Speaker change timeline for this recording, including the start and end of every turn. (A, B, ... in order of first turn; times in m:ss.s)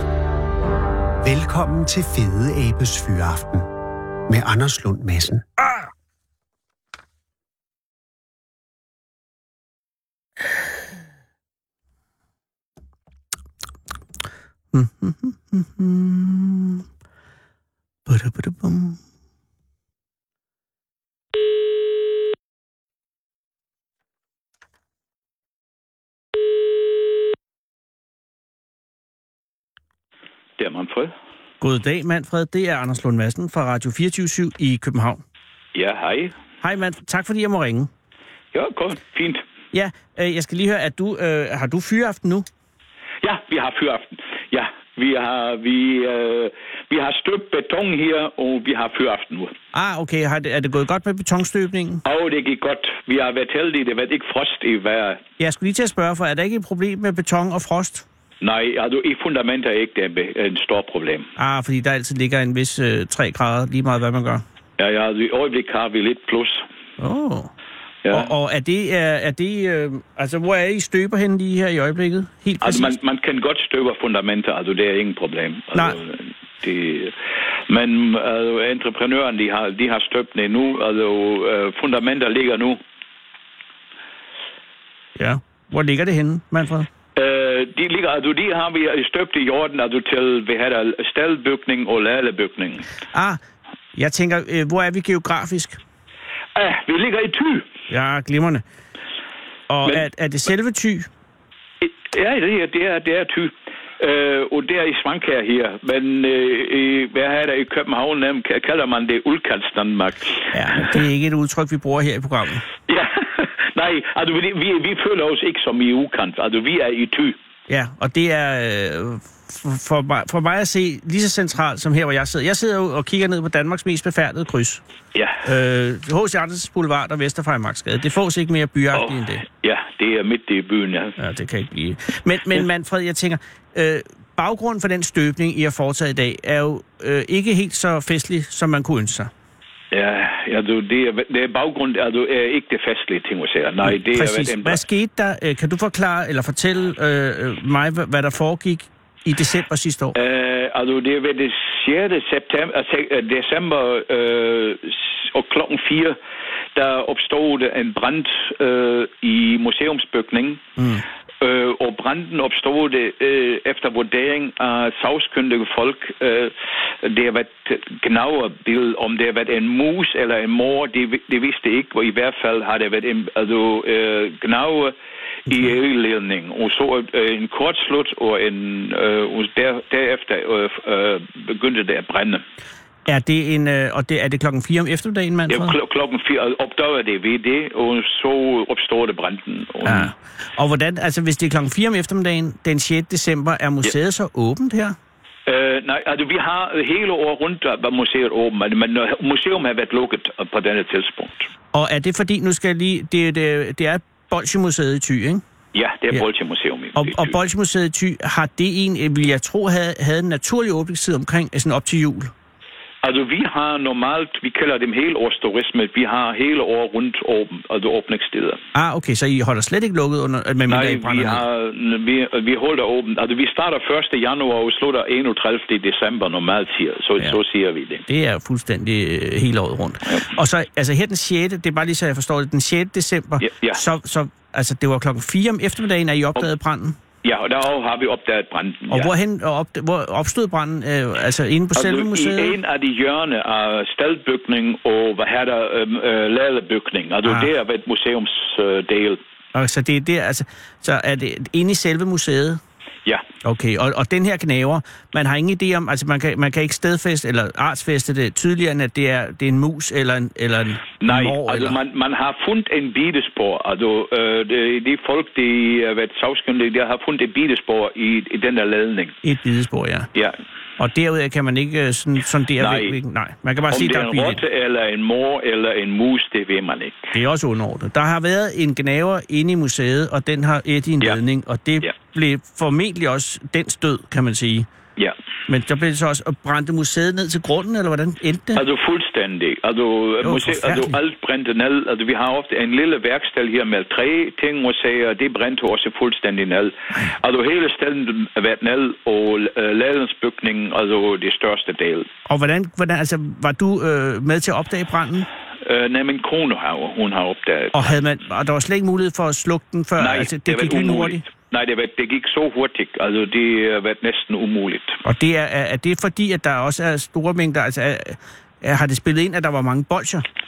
0:01.2-0:03.7 A
0:04.3-0:05.4 A
0:14.7-0:16.8 B
0:18.1-0:19.0 B
0:30.6-0:31.1 C
0:31.6-0:35.2 B
0:35.7-0:36.4 C
0:36.6-0:37.9 B
0:38.5-0:39.4 C
0:39.7-0:42.5 B
0:43.2-0:49.5 C
0:49.7-0:52.0 B
0:52.0-0:55.2 C
0:55.4-0:58.0 B
0:58.4-1:01.3 C
1:01.4-1:04.4 B
1:04.8-1:06.7 C
1:07.0-1:07.5 B
1:08.0-1:08.3 C
1:08.1-1:13.0 B
1:12.6-1:17.2 C
1:17.7-1:22.8 C
1:25.2-1:26.9 B
1:27.2-1:32.9 C
1:33.1-1:33.4 B
1:33.9-1:35.8 B
1:36.6-1:37.7 C
1:37.9-1:38.6 B
1:39.7-1:41.1 B
1:41.8-1:51.0 C
1:50.5-1:52.6 B
1:52.9-1:57.4 C
1:57.7-2:04.8 B
2:05.2-2:05.4 C
2:05.4-2:09.4 B
2:08.9-2:11.2 C
2:11.2-2:19.3 B
2:19.9-2:24.8 C
2:23.8-2:30.2 B
2:30.2-2:36.2 C
2:36.8-2:40.6 C
2:40.8-2:41.0 B
2:41.4-2:54.9 C
2:55.5-3:02.4 C
3:03.1-3:05.8 B
3:05.5-3:10.1 C
3:09.8-3:15.0 B
3:15.5-3:21.5 C
3:21.7-3:25.4 B
3:25.7-3:27.4 C
3:27.0-3:32.3 B
3:33.0-3:38.6 C
3:38.7-3:41.4 B
3:40.7-3:48.0 C
3:48.1-3:57.0 B
3:53.4-3:53.8 C
3:57.2-3:59.1 C
3:58.9-4:02.6 B
4:01.8-4:09.2 C
4:09.5-4:12.6 B
4:13.4-4:21.8 B
4:21.0-4:29.2 C
4:29.2-4:30.1 B
4:30.8-4:34.4 B
4:32.6-4:33.0 C
4:33.7-4:37.0 C
4:37.1-4:44.7 B
4:45.5-4:48.6 B
4:48.6-5:02.1 C
4:50.2-4:51.0 B
5:02.3-5:05.3 B
5:05.6-5:07.9 C
5:07.7-5:11.2 B
5:10.0-5:15.0 C
5:15.0-5:20.2 B